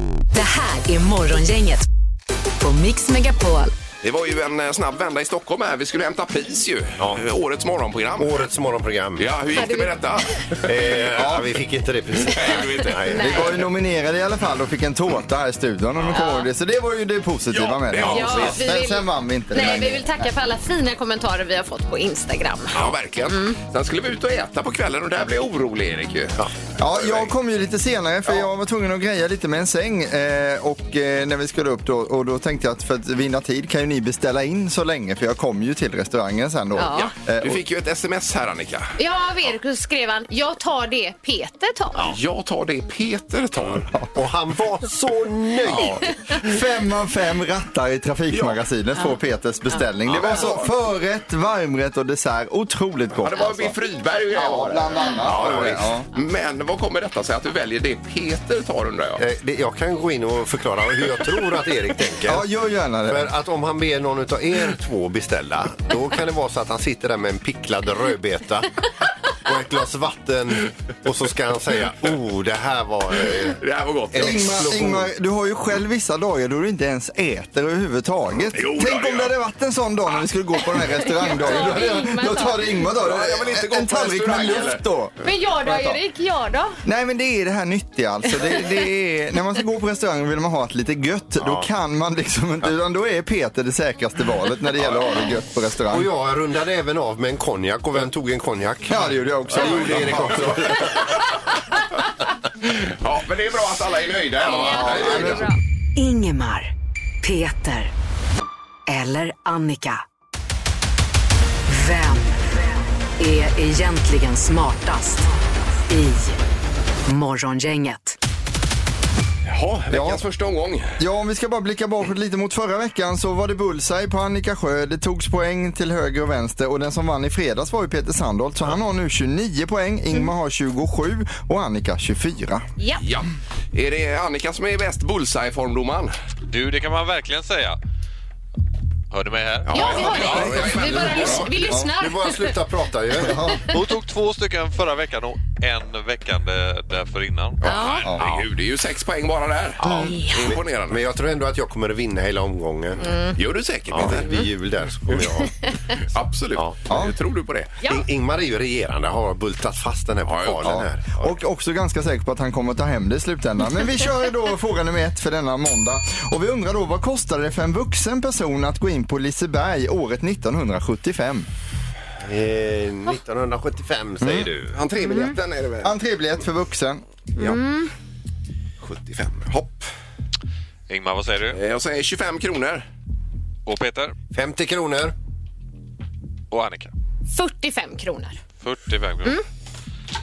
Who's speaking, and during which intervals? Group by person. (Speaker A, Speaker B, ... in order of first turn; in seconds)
Speaker A: 0.3-1.9, 2.6-3.7, 106.0-106.7, 107.2-107.9, 108.9-110.0, 111.7-112.7, 113.2-115.3, 115.9-116.4, 117.0-118.2
Speaker B: 4.0-8.3, 9.2-10.3, 12.2-13.0, 17.5-18.6, 22.7-26.4, 26.9-27.3, 36.9-39.0, 42.0-43.9, 48.3-48.6, 50.1-50.7, 53.2-59.2, 73.6-74.6, 78.5-79.3, 83.0-84.8, 99.6-100.7, 102.7-105.4, 119.5-121.0, 133.0-136.1, 139.7-141.7, 147.6-151.0, 153.3-154.4, 156.1-157.8, 160.2-160.7, 174.7-175.9, 178.8-179.9, 181.5-182.8
Speaker C: 8.2-9.2, 10.6-13.6, 43.7-46.1, 55.3-55.8, 59.2-62.5, 63.1-68.8, 69.4-73.6, 74.1-75.1, 91.4-91.7, 95.9-101.0, 140.3-143.5, 149.8-153.0, 153.9-156.0, 157.8-161.3, 172.2-174.8, 184.3-185.1
Speaker D: 9.5-9.9, 13.1-13.5, 16.1-16.5, 18.0-23.6, 36.8-37.1, 39.0-42.0, 80.8-82.9, 85.2-86.8, 104.4-105.6, 139.7-142.6, 147.6-148.1, 150.1-150.3, 153.0-153.3, 175.0-175.3, 177.4-177.9, 187.3-188.4
Speaker E: 11.1-11.5, 13.2-20.2, 26.8-37.6, 45.7-53.8, 54.3-56.0, 62.2-63.3, 74.1-86.0, 86.8-96.1, 98.9-100.8, 104.4-105.5, 119.9-120.2, 121.0-132.6, 140.2-141.9, 143.2-143.7, 149.8-150.1, 156.9-157.1, 160.6-171.5, 174.2-174.5, 175.8-177.0
Speaker F: 136.5-137.8, 139.1-140.4, 143.7-147.6, 180.9-181.6, 183.7-184.1, 186.5-186.9, 188.6-189.4